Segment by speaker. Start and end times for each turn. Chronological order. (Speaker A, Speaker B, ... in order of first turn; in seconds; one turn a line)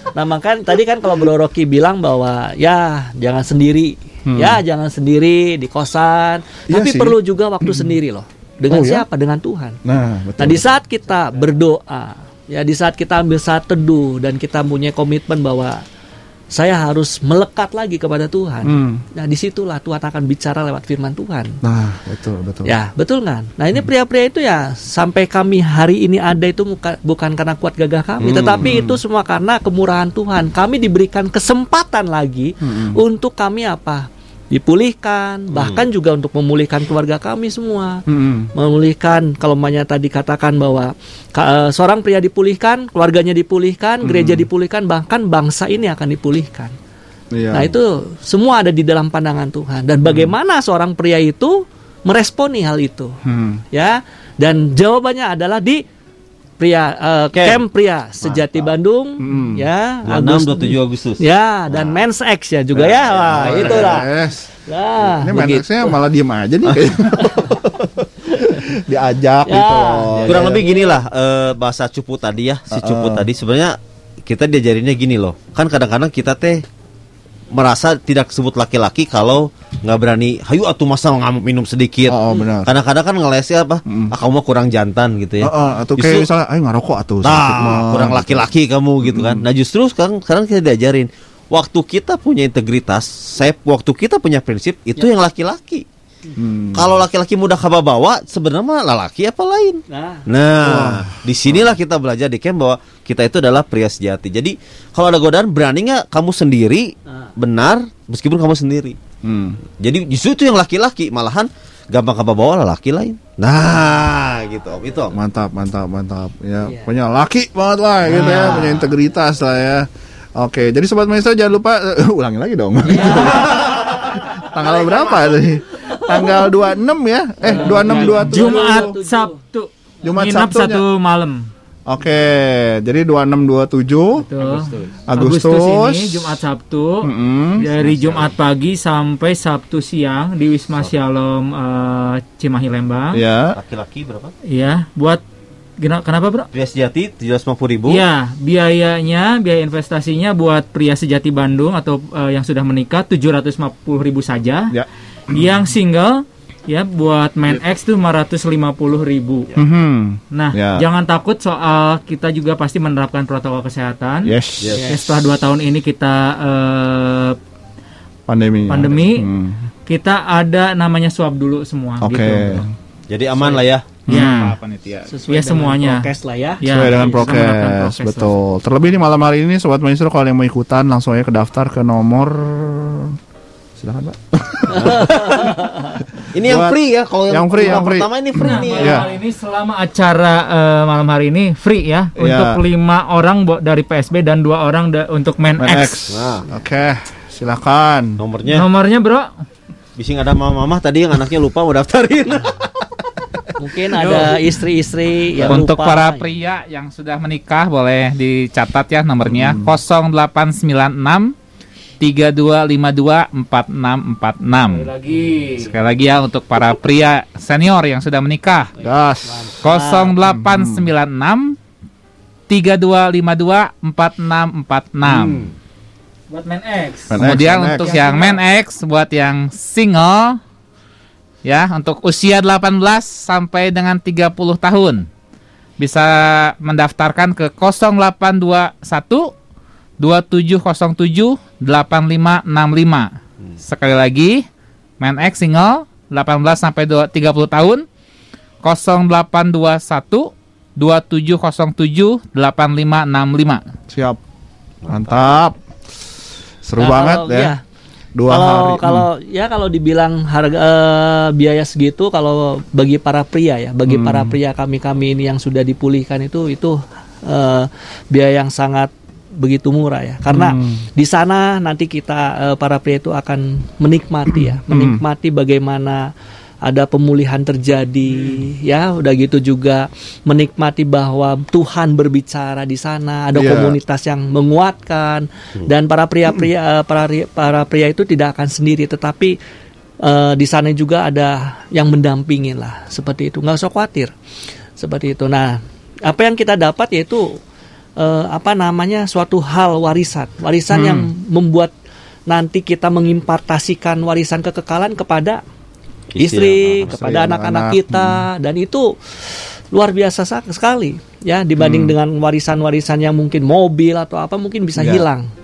Speaker A: 0.1-9.8
Speaker B: 4.3-4.6
Speaker B: 6.7-7.9
Speaker B: 8.7-9.1
Speaker B: 9.8-10.8
Speaker A: 10.4-15.8
Speaker A: 16.5-21.6
Speaker B: 18.6-19.0
Speaker B: 21.6-22.7
Speaker A: 22.6-38.0
Speaker C: 28.2-28.7
Speaker B: 28.6-29.0
Speaker B: 32.6-33.0
Speaker C: 35.5-35.8
Speaker B: 38.1-38.5
Speaker A: 38.5-46.7
Speaker B: 44.0-44.5
Speaker B: 47.3-47.8
Speaker A: 47.5-53.1
Speaker B: 53.2-53.6
Speaker A: 53.7-55.8
Speaker A: 56.6-64.1
Speaker C: 57.3-57.6
Speaker C: 58.2-58.7
Speaker B: 59.2-59.6
Speaker C: 60.0-62.0
Speaker C: 62.7-64.0
Speaker B: 63.3-64.5
Speaker A: 64.7-65.9
Speaker B: 65.1-70.6
Speaker A: 69.5-71.0
Speaker C: 70.3-76.6
Speaker B: 72.7-73.2
Speaker C: 77.5-86.3
Speaker B: 82.1-82.7
Speaker B: 83.9-84.1
Speaker B: 85.4-88.5
Speaker C: 87.2-95.8
Speaker B: 89.0-89.4
Speaker B: 96.4-97.0
Speaker C: 96.7-109.0
Speaker A: 99.9-100.2
Speaker B: 100.6-101.7
Speaker A: 107.1-107.3
Speaker B: 109.2-109.6
Speaker C: 109.8-115.2
Speaker B: 115.1-128.9
Speaker A: 116.6-116.9
Speaker A: 122.9-123.4
Speaker C: 123.3-125.6
Speaker A: 127.4-129.4
Speaker D: 127.5-131.5
Speaker B: 130.0-130.8
Speaker B: 131.9-134.2
Speaker D: 134.2-143.2
Speaker B: 135.1-136.3
Speaker B: 137.0-137.7
Speaker C: 137.7-138.3
Speaker B: 143.1-143.6
Speaker C: 143.5-144.3
Speaker D: 144.5-145.2
Speaker D: 145.8-146.5
Speaker C: 146.5-148.0
Speaker D: 147.9-154.7
Speaker D: 155.3-159.5
Speaker B: 159.5-160.8
Speaker D: 160.3-164.3
Speaker B: 164.2-164.8
Speaker C: 164.6-164.9
Speaker D: 164.9-167.4
Speaker B: 168.3-169.6
Speaker D: 168.7-169.3
Speaker D: 169.8-172.7
Speaker B: 172.0-172.7
Speaker C: 173.1-173.9
Speaker B: 174.1-174.3
Speaker D: 174.1-174.6
Speaker E: 174.1-175.1
Speaker A: 175.1-176.6
Speaker D: 175.3-176.1
Speaker D: 176.6-178.4
Speaker B: 176.6-183.2
Speaker B: 183.8-185.1
Speaker A: 184.7-185.9
Speaker C: 184.8-185.5
Speaker B: 186.2-186.8
Speaker C: 186.3-189.1
Speaker B: 187.3-189.1
Speaker D: 188.4-196.0
Speaker B: 192.2-192.6
Speaker B: 195.6-198.2
Speaker C: 196.1-196.4
Speaker C: 198.2-198.7
Speaker D: 198.5-199.3
Speaker C: 200.0-202.7
Speaker A: 203.6-206.2
Speaker D: 203.9-204.4
Speaker E: 205.5-211.3
Speaker B: 209.2-209.7
Speaker E: 212.0-214.9
Speaker D: 214.7-215.7
Speaker E: 215.6-218.7
Speaker B: 218.8-219.6
Speaker A: 219.2-220.2
Speaker E: 219.6-221.6
Speaker B: 220.2-220.9
Speaker E: 222.5-225.5
Speaker D: 226.3-228.4
Speaker B: 227.1-228.0
Speaker E: 227.2-230.4
Speaker E: 231.4-235.1
Speaker E: 235.8-239.3
Speaker E: 240.0-243.1
Speaker E: 243.6-244.4
Speaker E: 245.0-247.8
Speaker E: 248.6-253.6
Speaker B: 253.9-254.2
Speaker C: 254.8-255.2
Speaker B: 254.9-255.6
Speaker B: 256.6-257.5
Speaker A: 256.8-257.6
Speaker B: 258.1-259.1
Speaker A: 258.3-276.1
Speaker B: 263.9-264.4
Speaker B: 270.3-270.8
Speaker B: 274.3-275.0
Speaker A: 276.6-289.4
Speaker B: 283.3-283.8
Speaker A: 290.0-294.1
Speaker A: 294.8-297.4
Speaker A: 298.0-301.7
Speaker B: 300.7-301.1
Speaker A: 302.3-305.4
Speaker C: 306.1-306.9
Speaker A: 306.2-315.3
Speaker B: 306.9-308.2
Speaker B: 311.6-311.9
Speaker B: 314.8-315.1